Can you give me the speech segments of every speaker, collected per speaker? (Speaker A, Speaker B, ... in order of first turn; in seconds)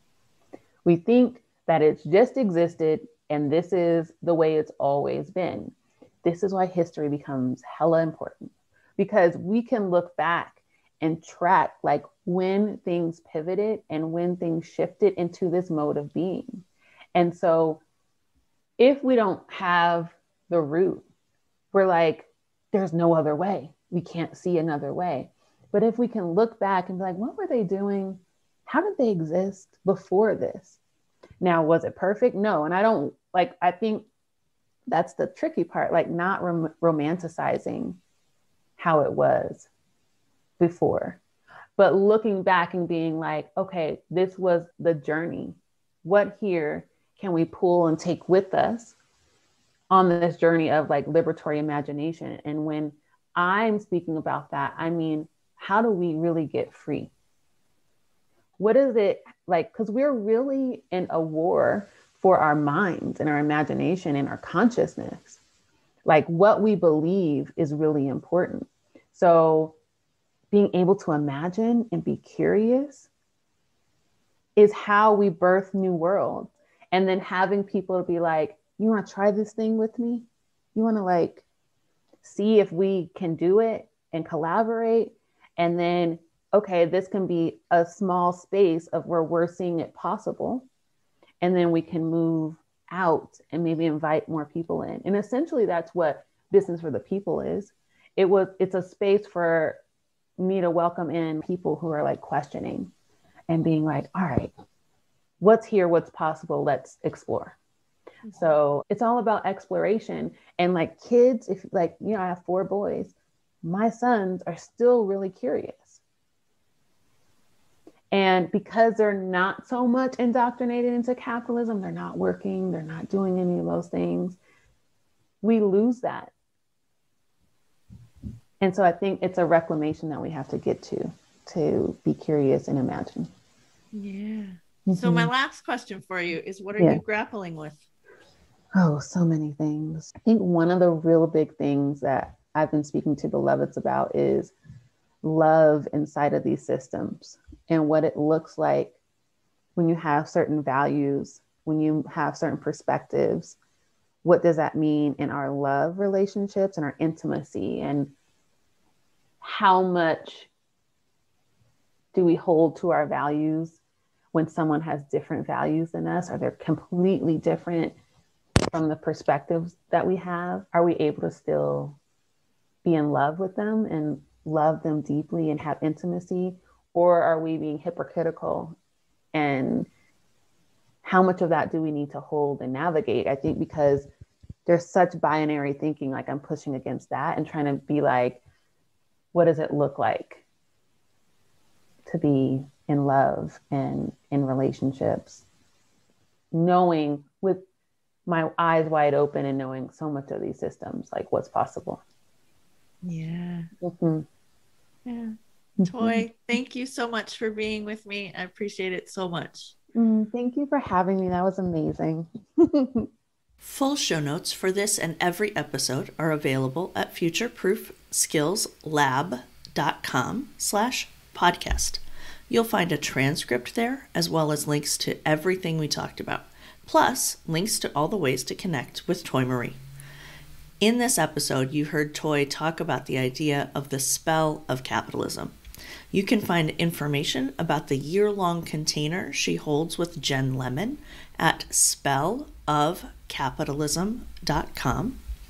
Speaker A: 0.8-17.8, 18.8-21.0, 21.7-30.8, 31.4-34.1, 34.9-38.0, 38.8-39.7, 40.6-41.2, 41.8-48.9, 49.9-57.1, 58.6-65.4, 66.0-69.8, 70.5-73.1, 74.5-81.4, 82.2-90.7, 91.4-99.8, 100.4-102.9, 103.5-104.5, 105.4-107.6, 108.3-116.0, 118.1-124.4, 125.4-126.3, 128.6-133.3, 134.9-135.3, 138.8-144.5, 145.2-149.0, 149.8-153.6, 154.2-158.1, 159.4-160.5, 162.1-163.8, 164.3-167.9, 168.7-172.0, 172.8-178.8, 179.3-179.9, 181.0-184.1, 184.7-188.4, 189.3-190.4, 192.1-195.4, 196.5-197.6, 198.2-202.0, 203.8-204.2, 205.8-206.2, 209.9-213.1
Speaker B: 108.2-108.5, 133.9-137.8, 203.0-203.7, 205.1-209.8, 213.6-229.8, 230.8-235.5, 236.1-245.2